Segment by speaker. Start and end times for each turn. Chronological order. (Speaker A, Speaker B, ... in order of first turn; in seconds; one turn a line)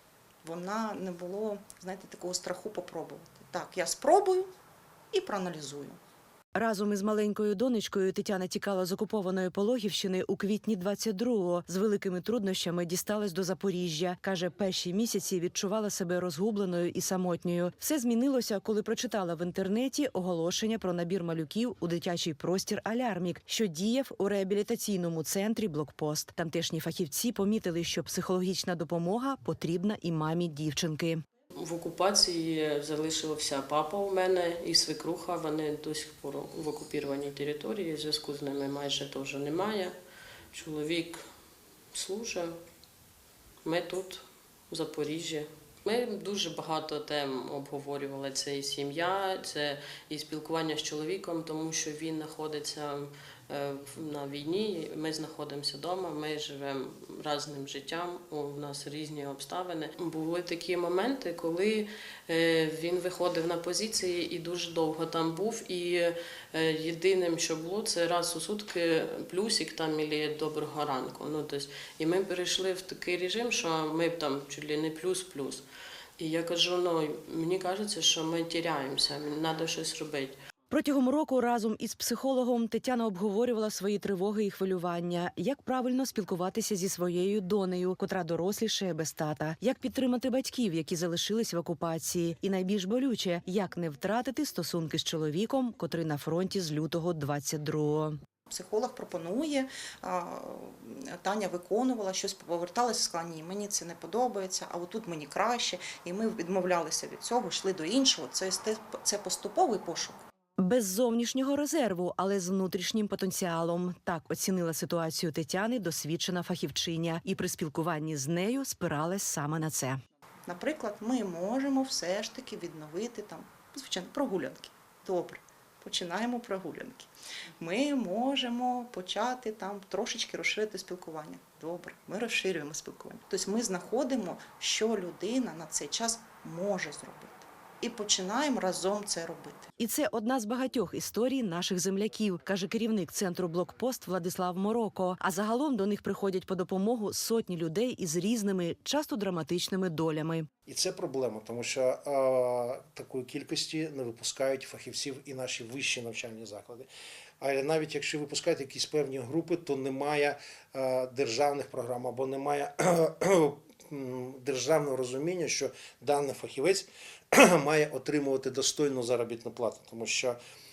Speaker A: 0.4-4.5
Speaker A: 5.1-6.0
Speaker B: 6.5-31.2
Speaker C: 31.6-40.0
Speaker C: 40.5-41.2
Speaker C: 41.9-42.5
Speaker C: 43.6-75.7
Speaker C: 76.2-80.4
Speaker B: 80.7-98.2
Speaker A: 98.5-110.3
Speaker B: 110.6-120.0
Speaker A: 120.5-139.7
Speaker B: 139.8-150.5
Speaker D: 150.7-156.9
Speaker D: 157.4-170.4